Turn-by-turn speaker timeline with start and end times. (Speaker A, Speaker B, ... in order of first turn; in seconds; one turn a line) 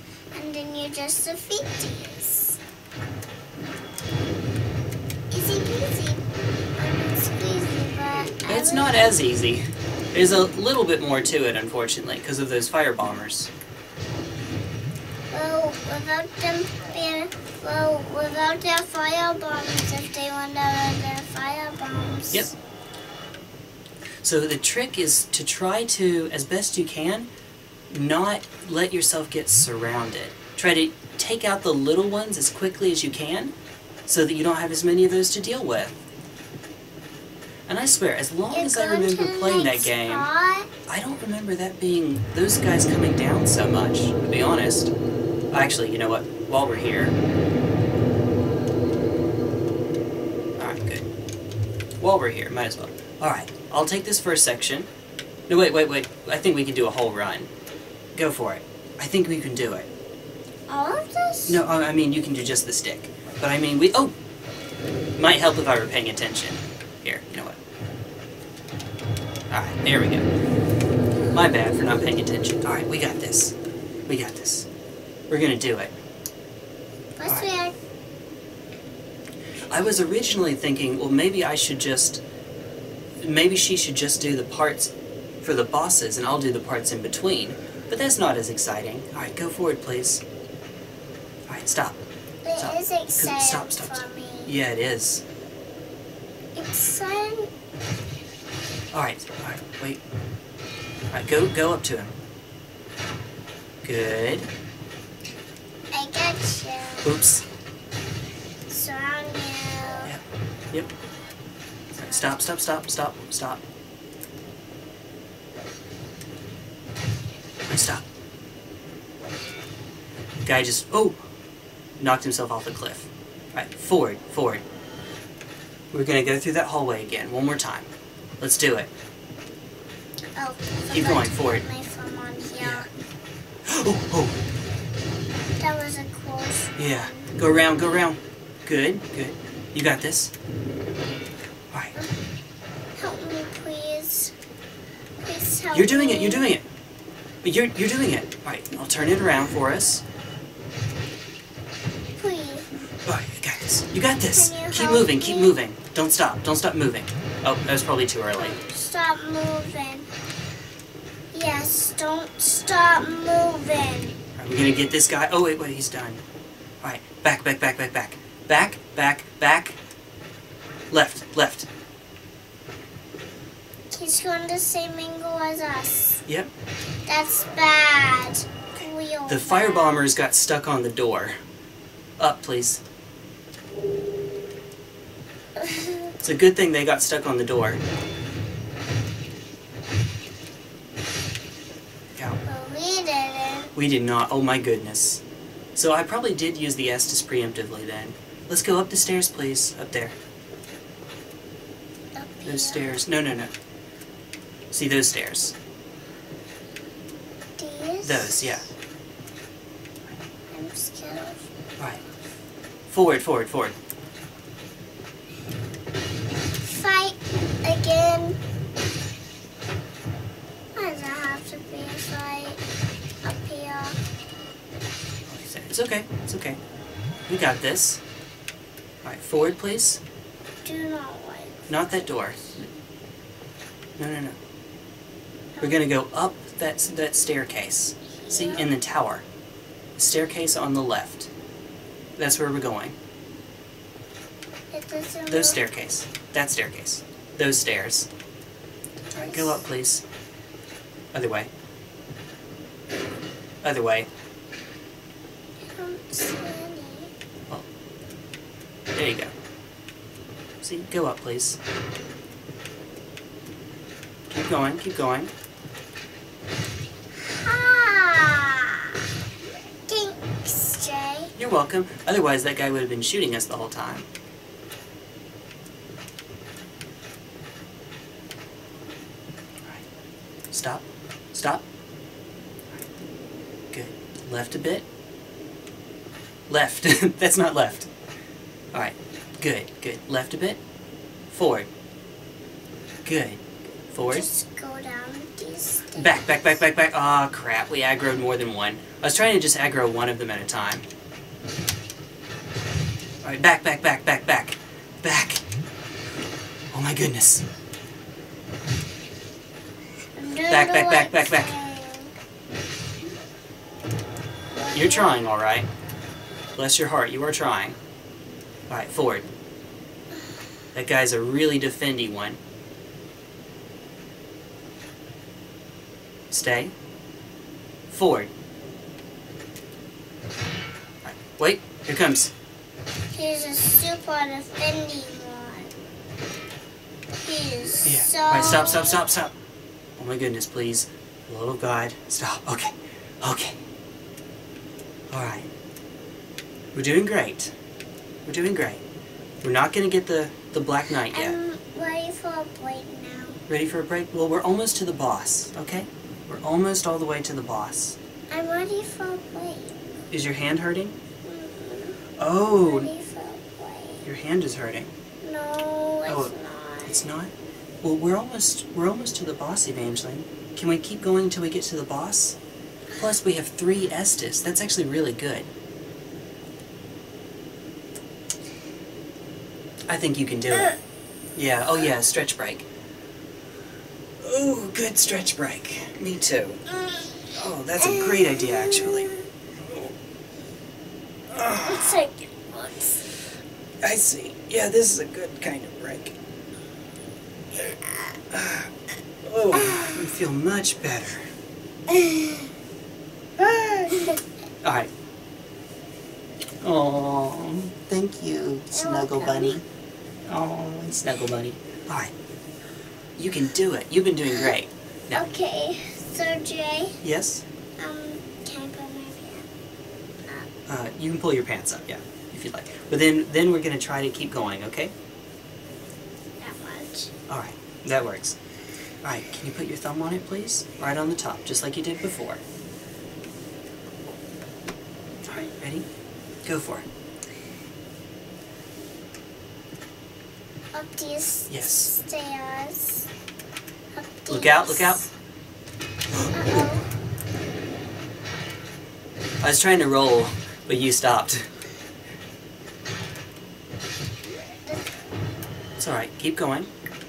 Speaker A: 0.3-2.6
Speaker A: 5.3-6.2
Speaker A: 6.8-9.1
Speaker B: 8.5-13.5
Speaker A: 15.3-22.5
Speaker B: 24.2-27.3
Speaker B: 27.9-33.5
Speaker B: 34.0-36.0
Speaker B: 37.7-40.3
Speaker A: 38.5-40.7
Speaker B: 40.9-44.9
Speaker B: 45.5-47.1
Speaker B: 50.6-51.1
Speaker B: 52.0-54.9
Speaker B: 55.5-57.5
Speaker B: 58.1-59.9
Speaker A: 60.7-61.6
Speaker B: 61.5-64.1
Speaker B: 65.2-67.6
Speaker B: 69.5-70.3
Speaker B: 71.3-73.5
Speaker B: 74.1-74.7
Speaker B: 75.3-75.9
Speaker A: 77.2-77.7
Speaker B: 79.6-82.2
Speaker B: 83.2-90.2
Speaker B: 91.5-92.0
Speaker A: 92.4-94.5
Speaker B: 92.6-95.2
Speaker A: 96.5-97.5
Speaker B: 98.9-100.0
Speaker B: 101.1-102.1
Speaker B: 103.8-104.5
Speaker A: 105.9-107.5
Speaker B: 107.0-107.4
Speaker A: 108.7-110.1
Speaker B: 110.0-110.9
Speaker B: 112.0-113.6
Speaker A: 112.1-112.4
Speaker B: 117.7-118.0
Speaker B: 120.4-121.2
Speaker B: 122.0-124.6
Speaker B: 125.9-128.9
Speaker A: 130.4-132.9
Speaker B: 130.9-131.6
Speaker B: 132.6-132.9
Speaker B: 133.6-134.4
Speaker A: 135.6-138.0
Speaker B: 136.8-140.3
Speaker A: 143.0-144.3
Speaker A: 145.2-146.5
Speaker B: 145.7-146.7
Speaker B: 147.4-150.0
Speaker A: 152.1-152.7
Speaker B: 153.1-158.6
Speaker A: 154.3-155.6
Speaker A: 158.3-160.1
Speaker A: 161.3-164.2
Speaker B: 164.4-166.2
Speaker B: 166.8-169.8
Speaker B: 170.9-171.7
Speaker A: 173.9-176.2
Speaker A: 177.1-180.1
Speaker B: 179.3-181.4
Speaker B: 182.2-182.8
Speaker A: 185.6-186.1
Speaker B: 186.2-187.8
Speaker A: 192.4-193.7
Speaker B: 193.7-195.2
Speaker B: 195.7-200.2
Speaker A: 202.1-203.0
Speaker B: 202.4-203.5
Speaker B: 204.7-205.6
Speaker A: 207.6-208.6
Speaker B: 208.0-208.7
Speaker A: 210.5-211.4
Speaker B: 212.9-213.8
Speaker A: 216.6-218.4
Speaker A: 220.7-222.6
Speaker A: 223.2-224.0
Speaker B: 225.3-226.6
Speaker B: 227.3-228.0
Speaker B: 229.0-230.0
Speaker A: 230.6-232.0
Speaker B: 231.7-232.7
Speaker B: 234.0-234.4
Speaker B: 235.6-239.2
Speaker A: 238.2-238.7
Speaker B: 240.0-241.3
Speaker B: 242.2-242.9
Speaker A: 244.7-245.6
Speaker B: 245.3-248.1
Speaker A: 249.1-249.6
Speaker B: 249.1-250.0
Speaker B: 251.1-251.5
Speaker B: 253.6-254.1
Speaker A: 255.7-257.1
Speaker B: 258.9-259.3
Speaker B: 260.6-261.6
Speaker B: 264.3-265.3
Speaker A: 267.2-269.0
Speaker A: 269.9-271.3
Speaker B: 271.4-274.1
Speaker B: 280.5-281.6
Speaker B: 283.7-284.9
Speaker B: 286.5-287.9
Speaker B: 288.7-290.6
Speaker B: 291.3-291.7
Speaker B: 293.1-294.3
Speaker A: 294.1-296.6
Speaker B: 295.9-300.8
Speaker B: 303.2-305.4
Speaker B: 306.7-307.4
Speaker A: 310.1-312.1
Speaker B: 310.5-311.6
Speaker A: 314.6-315.2
Speaker B: 314.7-315.7
Speaker B: 316.6-317.8
Speaker B: 318.7-319.3
Speaker B: 320.7-322.4
Speaker B: 326.3-326.7
Speaker B: 327.9-328.3
Speaker B: 331.0-332.3
Speaker A: 333.1-335.7
Speaker A: 337.2-339.1
Speaker B: 337.8-339.3
Speaker B: 340.0-343.6
Speaker B: 345.1-345.5
Speaker B: 346.7-347.5
Speaker B: 348.2-348.8
Speaker B: 349.4-351.4
Speaker A: 351.0-353.4
Speaker B: 353.5-358.0
Speaker A: 358.3-360.0
Speaker B: 360.1-361.0
Speaker A: 361.2-362.0
Speaker B: 362.2-362.9
Speaker A: 362.6-364.1
Speaker B: 364.1-364.9
Speaker A: 365.2-367.1
Speaker B: 366.1-366.3
Speaker B: 366.8-372.4
Speaker B: 372.9-375.5
Speaker B: 379.9-380.8
Speaker B: 381.3-382.7
Speaker B: 384.2-386.6
Speaker A: 386.7-389.2
Speaker B: 387.3-389.1
Speaker B: 391.3-392.0
Speaker A: 391.6-393.0
Speaker B: 393.8-396.1
Speaker B: 398.3-398.7
Speaker B: 399.2-401.3
Speaker A: 399.5-400.0
Speaker A: 401.9-402.5
Speaker B: 403.4-404.1
Speaker B: 404.6-404.9
Speaker B: 406.6-409.6
Speaker A: 408.7-409.6
Speaker B: 410.3-412.1
Speaker B: 413.1-415.2
Speaker A: 415.1-417.0
Speaker B: 417.0-417.4
Speaker A: 417.8-419.5
Speaker B: 420.7-424.9
Speaker A: 426.4-427.1
Speaker B: 427.3-428.4
Speaker B: 429.0-432.4
Speaker B: 435.3-435.9
Speaker B: 436.4-436.9
Speaker A: 440.7-443.1
Speaker B: 441.5-441.9
Speaker A: 443.9-445.1
Speaker B: 444.3-445.0
Speaker A: 446.3-446.9
Speaker B: 449.4-451.5
Speaker A: 454.6-455.0
Speaker B: 455.8-456.7